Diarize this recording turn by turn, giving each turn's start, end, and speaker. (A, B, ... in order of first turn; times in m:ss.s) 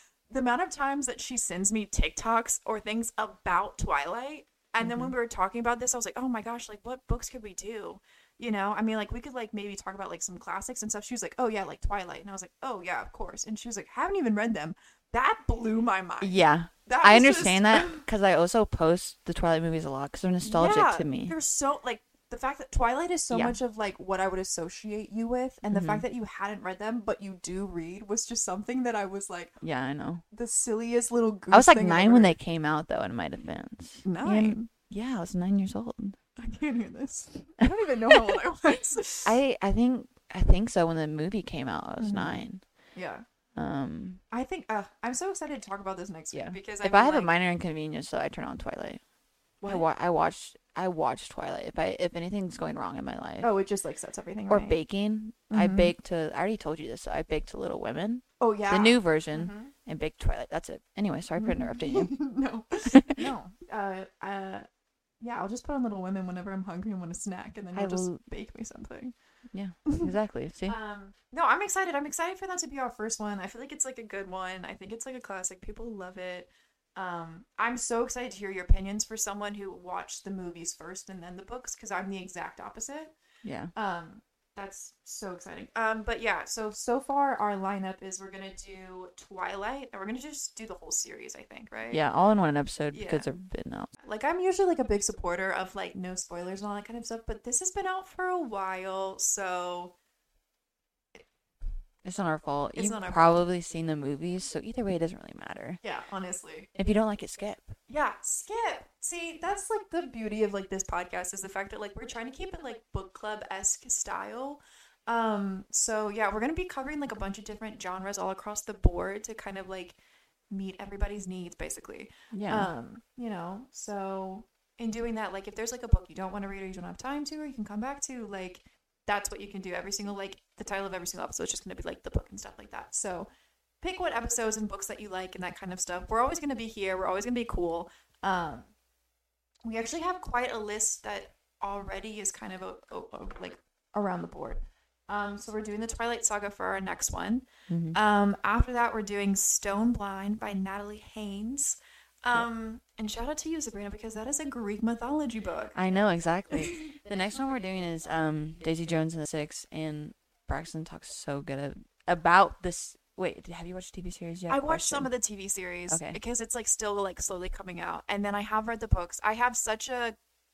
0:00.3-0:18.0 A
0:04.8-0:05.1 B
0:16.2-0:21.4 B
0:20.4-0:29.6 A
0:23.3-0:23.6 B
0:25.7-0:26.1 B
0:29.6-0:30.2 B
0:30.3-0:32.4 A
0:31.5-0:36.2 B
0:34.0-0:34.7 A
0:36.4-0:39.4 A
0:39.2-0:42.6 B
0:42.0-0:42.4 A
0:42.9-0:43.2 A
0:43.6-0:44.2 B
0:44.3-0:47.3 A
0:46.3-0:49.0 B
0:49.6-0:53.5 B
0:53.4-0:54.8 A
0:54.5-1:02.1 B
0:55.5-0:55.9 A
0:58.4-0:59.7 A
1:01.4-1:04.6 A
1:05.2-1:09.1 A
1:07.7-1:08.2 B
1:09.5-1:10.8 B
1:09.9-1:10.1 A
1:10.7-1:23.1 A
1:23.4-1:23.7 B
1:23.8-1:32.0 A
1:31.9-1:33.9 B
1:32.9-1:33.3 A
1:34.0-1:39.9 A
1:42.0-1:45.8 B
1:42.8-1:43.4 A
1:45.8-1:46.7 A
1:46.8-1:47.8 B
1:47.9-2:00.0 A
2:00.5-2:13.3 A
2:02.3-2:02.7 B
2:13.8-2:18.7 A
2:19.6-2:36.9 A
2:27.7-2:28.0 B
2:35.8-2:45.1 B
2:44.5-2:50.2 A
2:45.9-2:46.2 B